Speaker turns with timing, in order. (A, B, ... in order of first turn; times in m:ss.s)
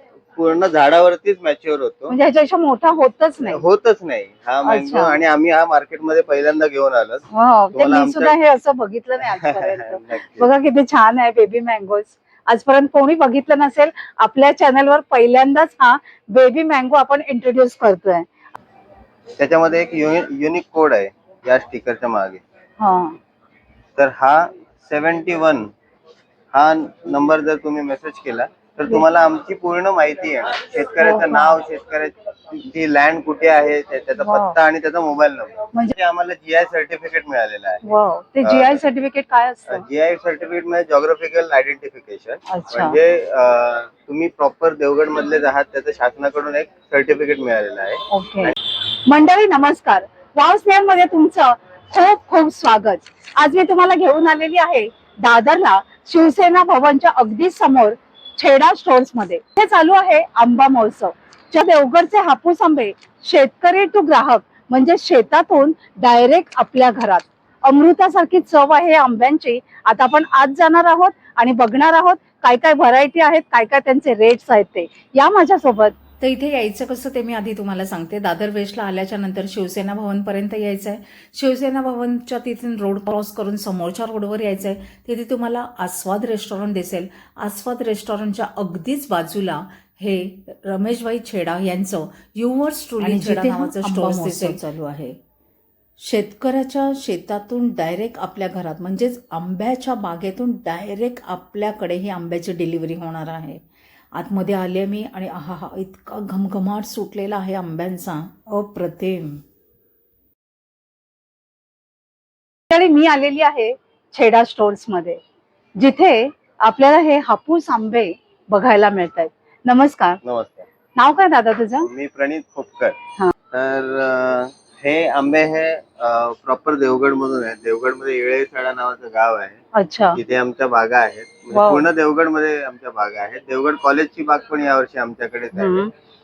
0:00.4-0:02.2 A
0:02.1-0:03.6 B
0:03.4-0:08.4 A
0:04.6-0:05.2 B
0:07.3-0:18.3 B
0:09.2-0:10.5 A
0:19.4-0:22.4 A
0:22.8-0:23.2 B
0:24.0-0:25.7 A
0:26.5-0:37.8 A
0:31.0-0:31.6 B
0:34.2-0:34.6 B
0:37.8-0:39.8 B
0:38.4-0:38.8 A
0:39.7-0:48.5 A
0:42.5-0:43.0 B
0:48.1-0:48.5 B
0:49.1-1:16.0 B
1:16.2-1:35.2 C
1:33.0-1:34.6 B
1:36.0-1:43.6 C
1:44.1-1:49.4 C
1:52.7-1:55.2 B
1:55.8-2:00.2 B
2:00.2-2:00.7 A
2:01.0-2:01.9 B
2:01.8-2:03.0 A
2:03.5-2:09.6 A
2:09.8-2:10.2 B
2:10.2-2:15.8 A
2:11.5-2:11.8 B
2:15.5-2:15.9 B